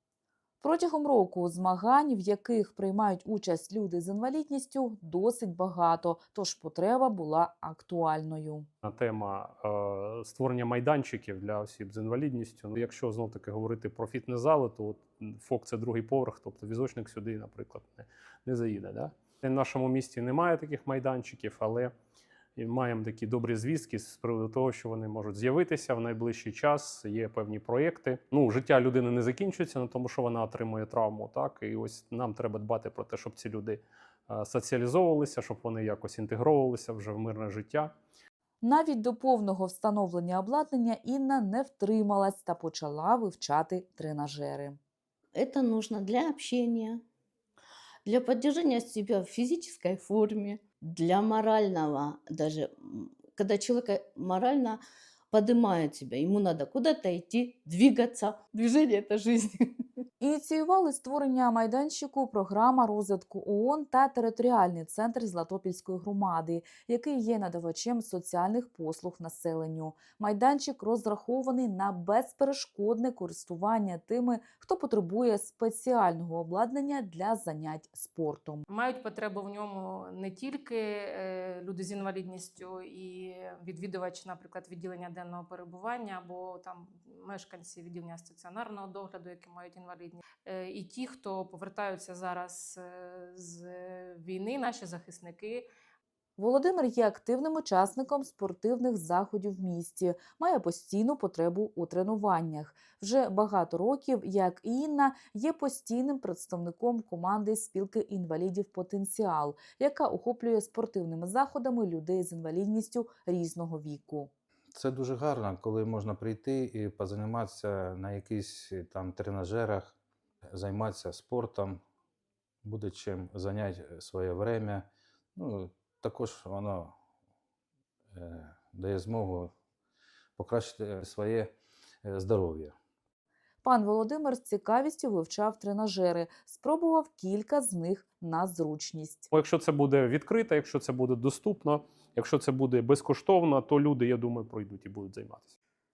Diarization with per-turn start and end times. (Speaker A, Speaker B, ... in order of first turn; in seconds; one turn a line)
Speaker A: 0.6-8.7
Speaker B: 8.8-21.9
Speaker B: 22.6-37.9
Speaker A: 38.6-44.8
Speaker C: 45.3-47.0
Speaker C: 48.0-54.8
Speaker C: 55.3-59.6
Speaker A: 60.2-78.6
Speaker D: 78.7-95.7
Speaker A: 96.4-114.3
Speaker E: 114.8-120.0
Speaker E: 120.5-121.8
Speaker E: 122.6-126.9
Speaker E: 128.1-129.5
Speaker E: 130.3-131.5
Speaker E: 132.0-132.7
Speaker A: 133.6-139.3
Speaker B: 139.3-145.5